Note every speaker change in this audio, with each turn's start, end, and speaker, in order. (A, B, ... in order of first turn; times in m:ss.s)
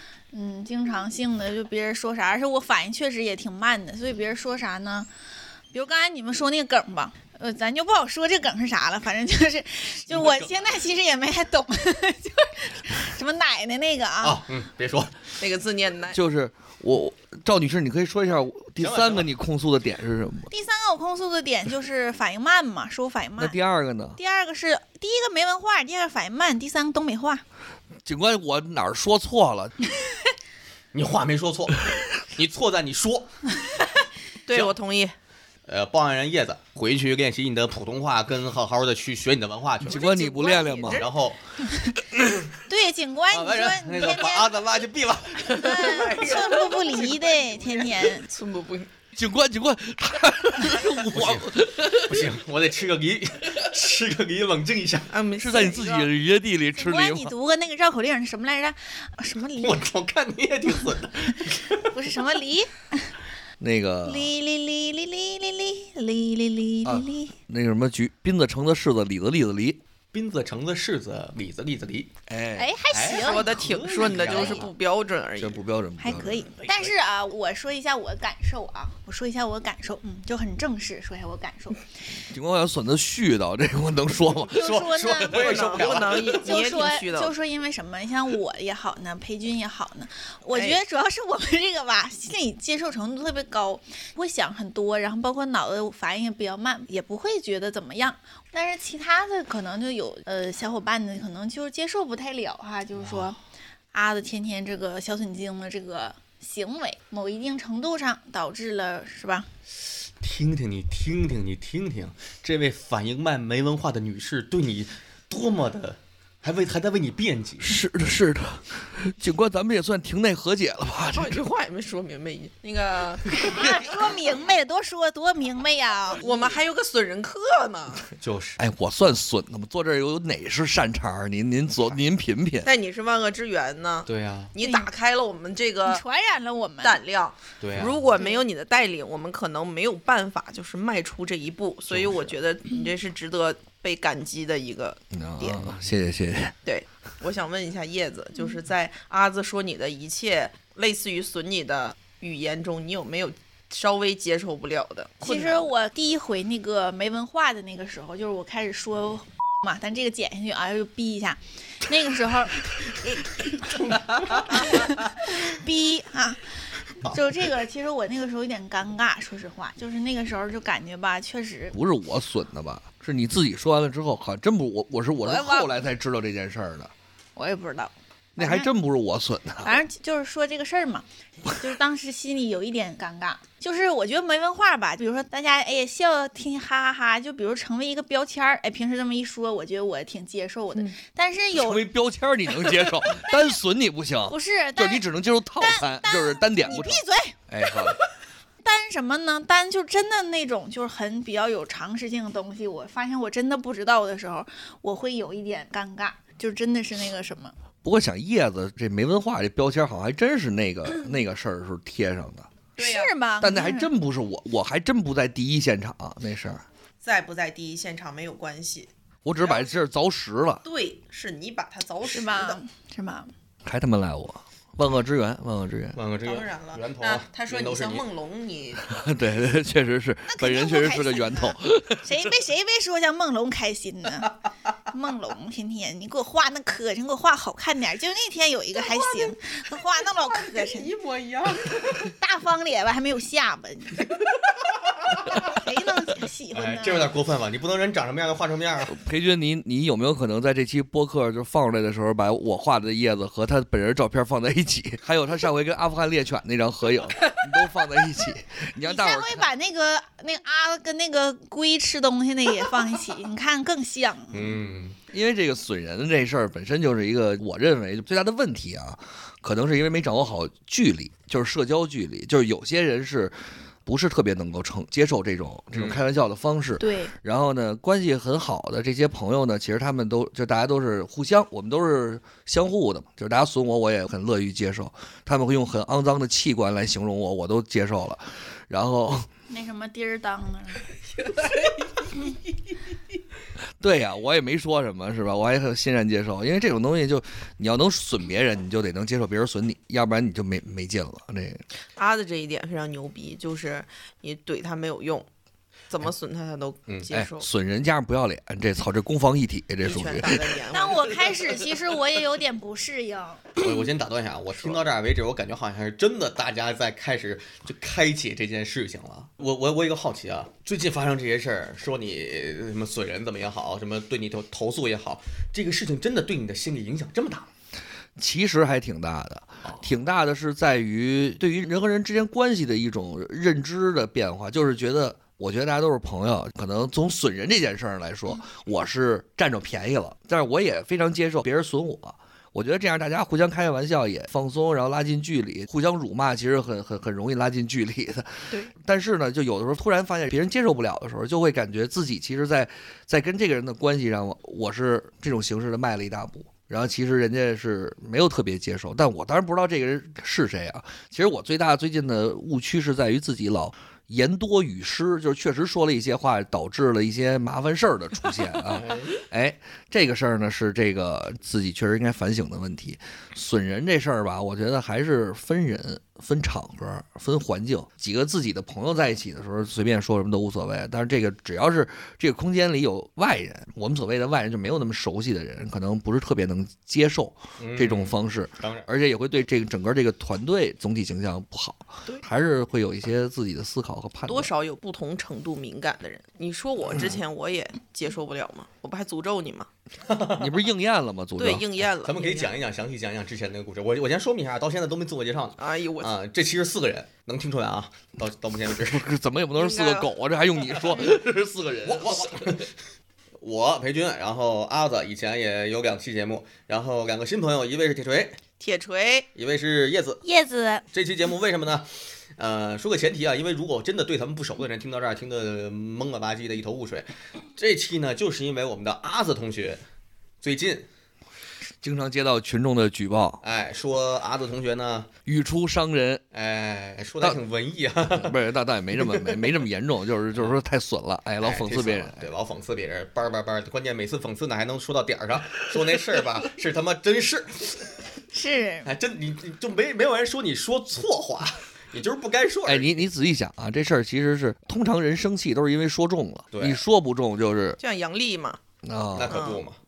0:00.3-0:05.1 A
0:05.7-0:14.4 A
0:10.0-0:10.6 B
0:14.2-0:15.3 B
0:15.4-0:16.2 C
0:16.1-0:20.5 D
0:18.8-0:19.3 B
0:20.5-0:23.5 A
0:23.4-0:24.2 D
0:24.2-0:27.4 A
0:28.0-0:29.7 D
0:30.9-0:33.5 B
0:34.4-0:35.1 C
0:34.5-0:34.8 B
0:35.6-0:40.0 B
0:39.8-0:41.1 D
0:39.8-0:41.1 C
0:40.2-0:40.9 A
0:40.9-0:41.4 B
0:42.7-0:44.6 A
0:43.3-0:45.8 B
0:45.5-0:48.9 C
0:45.5-0:48.3 A
0:49.1-0:52.3 D
0:51.1-0:55.1 B
0:55.1-0:56.1 C
0:55.4-0:57.3 D
0:56.8-0:59.8 A
0:59.6-1:01.8 B
1:01.8-1:03.1 A
1:03.6-1:04.3 D
1:04.0-1:07.3 A
1:06.8-1:09.8 D
1:10.1-1:12.1 B
1:12.3-1:12.7 D
1:12.6-1:14.6 A
1:12.9-1:14.7 B
1:13.1-1:15.6 C
1:15.4-1:16.5 D
1:16.0-1:21.8 A
1:16.6-1:16.9 B
1:22.3-1:25.0 D
1:24.5-1:26.6 B
1:24.5-1:43.4 A
1:25.3-1:27.3 C
1:30.5-1:30.8 C
1:43.0-1:43.3 B
1:43.9-1:49.5 A
1:50.2-1:57.7 B
1:57.6-2:01.4 D
2:01.1-2:03.3 C
2:03.4-2:06.2 A
2:06.2-2:08.1 C
2:08.2-2:08.6 B
2:08.6-2:12.7 D
2:12.6-2:16.0 C
2:14.1-2:14.5 B
2:14.6-2:14.9 A
2:15.8-2:17.0 A
2:16.8-2:25.6 C
2:17.6-2:18.0 B
2:21.9-2:22.4 B
2:25.1-2:26.5 D
2:26.6-2:35.7 C
2:35.2-2:51.8 A
2:44.2-2:44.5 B
2:51.7-2:56.9 D
2:55.2-2:55.7 A
2:57.4-2:58.7 A
2:58.4-2:59.8 D
2:59.6-3:11.8 A
3:11.6-3:18.0 D
3:12.6-3:13.4 A
3:14.2-3:15.1 A
3:15.6-3:17.4 A
3:18.6-3:27.5 A
3:27.8-3:32.5 D
3:32.8-3:33.1 C
3:32.8-3:33.9 A
3:33.4-3:36.6 D
3:37.0-3:39.8 C
3:39.2-3:40.6 D
3:40.6-3:42.6 C
3:42.0-3:43.3 A
3:43.6-3:46.0 D
3:45.9-3:48.0 B
3:46.2-3:49.0 C
3:48.9-3:52.3 D
3:50.3-3:54.3 A
3:54.9-4:00.9 A
3:58.8-3:59.3 C
4:00.1-4:02.1 C
4:02.0-4:04.1 A
4:05.5-4:07.1 A
4:06.5-4:09.0 B
4:08.9-4:19.5 D
4:18.8-4:24.6 A
4:24.3-4:25.0 B
4:25.1-4:33.3 D
4:33.8-4:49.3 D
4:35.7-4:36.0 B
4:36.8-4:37.1 A
4:49.5-4:50.8 A
4:51.2-4:52.1 C
4:53.8-5:01.6 D
5:02.0-5:05.3 C
5:05.9-5:07.5 C
5:07.1-5:10.6 D
5:09.8-5:11.6 C
5:10.7-5:13.6 A
5:13.6-5:27.5 B
5:28.2-6:34.5 D
6:08.8-6:09.1 B
6:27.6-6:28.9 B
6:34.2-6:39.7 C
6:40.0-6:40.6 B
6:40.4-6:41.7 D
6:41.4-6:42.5 C
6:42.0-6:49.1 B
6:45.6-6:46.1 C
6:48.8-6:52.6 D
6:49.5-6:50.1 C
6:51.8-6:52.7 B
6:53.4-6:58.4 B
6:58.6-6:59.3 C
6:59.3-7:00.2 B
7:00.2-7:00.8 A
7:00.9-7:09.8 B
7:10.4-7:10.9 B
7:11.8-7:13.4 D
7:13.4-7:15.1 B
7:15.2-7:16.2 D
7:16.3-7:18.4 B
7:18.2-7:22.3 D
7:19.0-7:19.4 B
7:21.4-7:28.0 B
7:28.3-7:28.9 A
7:28.8-7:32.9 B
7:32.6-7:37.8 D
7:36.5-7:36.8 B
7:37.8-7:38.6 C
7:38.8-7:39.4 D
7:39.1-7:39.8 B
7:39.3-7:39.6 C